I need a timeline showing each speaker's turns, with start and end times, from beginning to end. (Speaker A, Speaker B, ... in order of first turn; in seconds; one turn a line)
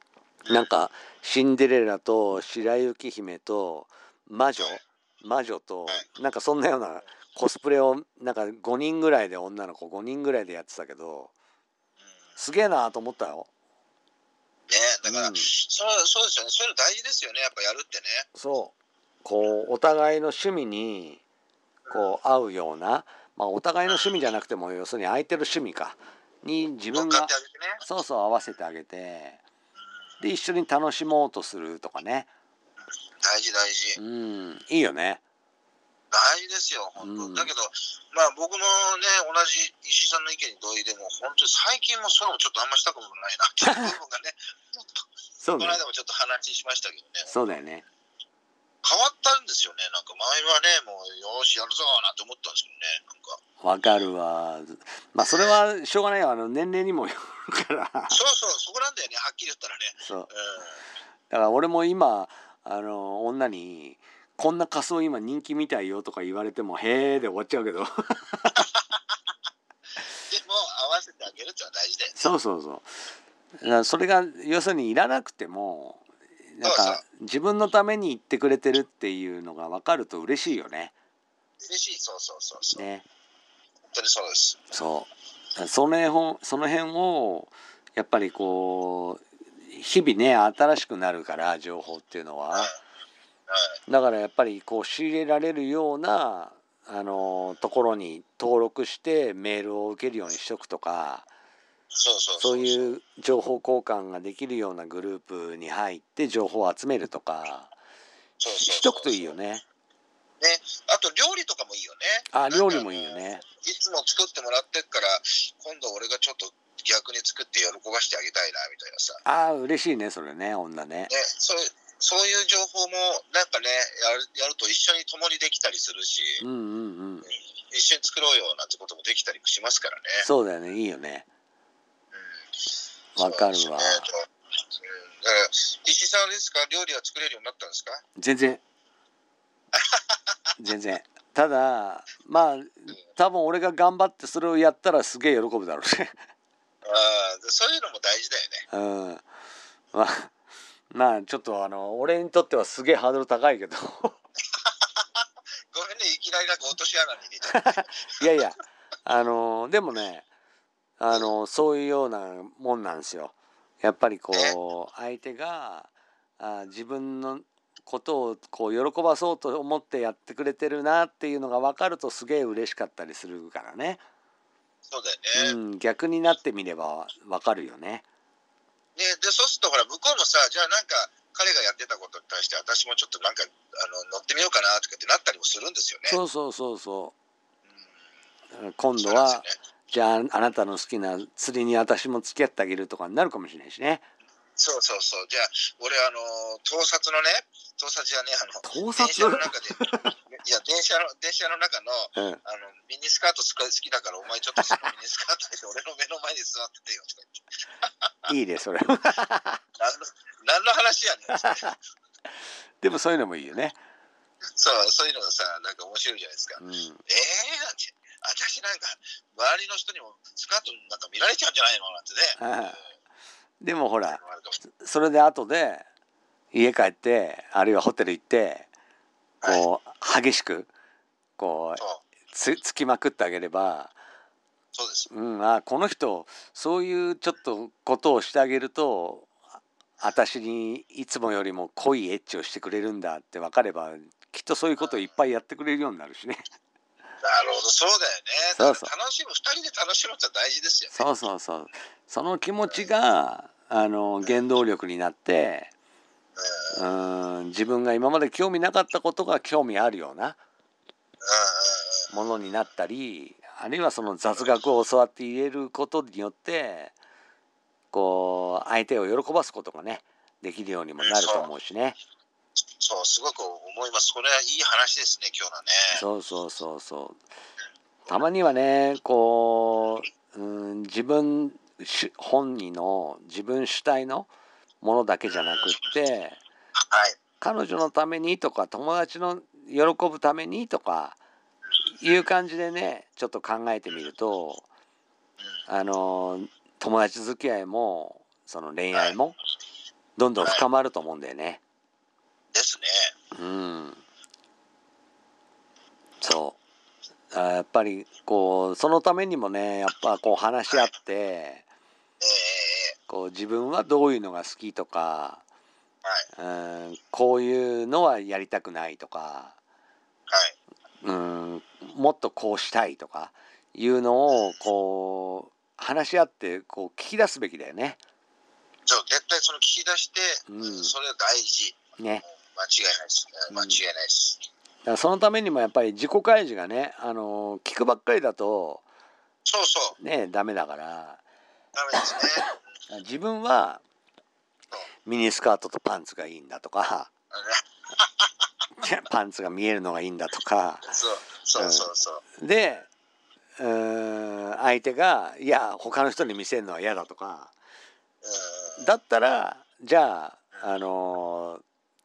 Speaker A: 0.5-11.3
Speaker A: 12.4-13.5
Speaker B: 14.7-18.2
Speaker A: 15.0-15.5
Speaker A: 18.3-21.2
Speaker B: 21.9-22.1
Speaker A: 21.9-27.3
Speaker B: 23.9-24.2
Speaker B: 26.9-27.8
Speaker A: 27.8-29.4
Speaker A: 30.2-32.3
Speaker B: 33.2-34.0
Speaker A: 34.0-35.2
Speaker B: 36.1-45.0
Speaker A: 37.0-37.5
Speaker A: 45.4-45.8
Speaker B: 45.6-47.4
Speaker A: 47.3-47.8
Speaker B: 48.8-53.4
Speaker A: 53.6-58.1
Speaker B: 55.2-55.6
Speaker B: 58.1-60.8
Speaker A: 60.0-60.3
Speaker A: 61.3-68.7
Speaker B: 70.3-72.2
Speaker A: 72.1-72.9
Speaker A: 73.6-80.9
Speaker B: 76.6-77.0
Speaker B: 81.6-82.8
Speaker A: 82.7-83.0
Speaker B: 83.9-84.6
Speaker A: 84.7-92.7
Speaker A: 93.9-101.2
Speaker B: 101.9-102.9
Speaker A: 102.4-107.7
Speaker B: 108.4-109.3
Speaker A: 108.5-109.6
Speaker B: 110.4-119.2
Speaker A: 112.3-113.4
Speaker A: 119.2-121.1
Speaker B: 121.1-126.4
Speaker A: 126.4-127.3
Speaker B: 127.7-130.2
Speaker A: 130.2-131.2
Speaker A: 133.2-134.1
Speaker B: 133.2-134.2
Speaker B: 134.8-138.0
Speaker A: 138.2-138.6
Speaker B: 139.8-140.2
Speaker A: 140.6-146.2
Speaker B: 146.8-148.6
Speaker A: 148.7-149.2
Speaker A: 149.9-150.3
Speaker A: 150.9-154.2
Speaker B: 154.6-158.3
Speaker A: 157.5-160.2
Speaker A: 161.0-174.0
Speaker B: 174.9-175.6
Speaker A: 175.3-178.0
Speaker B: 178.9-186.2
Speaker A: 186.1-187.1
Speaker A: 188.5-194.1
Speaker B: 189.0-189.6
Speaker B: 194.6-208.3
Speaker A: 198.6-200.1
Speaker A: 202.1-202.4
Speaker A: 208.3-209.6
Speaker B: 209.8-211.7
Speaker A: 211.3-211.7
Speaker A: 212.8-213.8
Speaker B: 214.6-222.8
Speaker A: 216.6-217.0
Speaker A: 222.4-222.8
Speaker A: 223.6-225.8
Speaker B: 224.1-224.6
Speaker A: 226.5-228.7
Speaker A: 229.4-230.7
Speaker A: 231.4-233.9
Speaker B: 234.7-235.1
Speaker A: 235.1-239.4
Speaker A: 240.0-246.4
Speaker B: 247.2-251.0
Speaker A: 248.5-248.9
Speaker A: 250.9-255.7
Speaker B: 256.4-256.8
Speaker A: 256.7-260.4
Speaker B: 261.2-262.1
Speaker A: 262.1-266.9
Speaker A: 267.9-272.0
Speaker B: 271.0-271.5
Speaker B: 272.8-276.0
Speaker A: 275.9-277.2
Speaker A: 278.1-284.3
Speaker A: 284.8-286.4
Speaker B: 285.3-285.8
Speaker B: 286.9-287.2
Speaker A: 287.4-291.2
Speaker A: 291.9-294.6
Speaker A: 295.7-299.3
Speaker A: 300.2-301.6
Speaker B: 302.5-303.1
Speaker A: 303.3-304.0
Speaker A: 306.2-306.6
Speaker A: 307.3-311.6
Speaker B: 312.2-312.9
Speaker A: 313.1-315.4
Speaker A: 316.4-319.5
Speaker B: 320.3-320.5
Speaker A: 321.0-328.0
Speaker B: 328.9-334.4
Speaker A: 330.5-330.9
Speaker A: 332.0-332.2
Speaker A: 333.5-333.8
Speaker A: 334.8-338.8
Speaker B: 339.4-339.9
Speaker A: 340.0-341.2
Speaker B: 341.7-342.6
Speaker A: 342.4-343.8
Speaker A: 345.1-347.1
Speaker B: 347.3-348.3
Speaker A: 348.8-350.9
Speaker B: 350.9-352.2
Speaker A: 351.6-351.9
Speaker A: 352.4-352.9
Speaker A: 353.6-357.5
Speaker B: 358.2-358.9
Speaker A: 358.8-361.6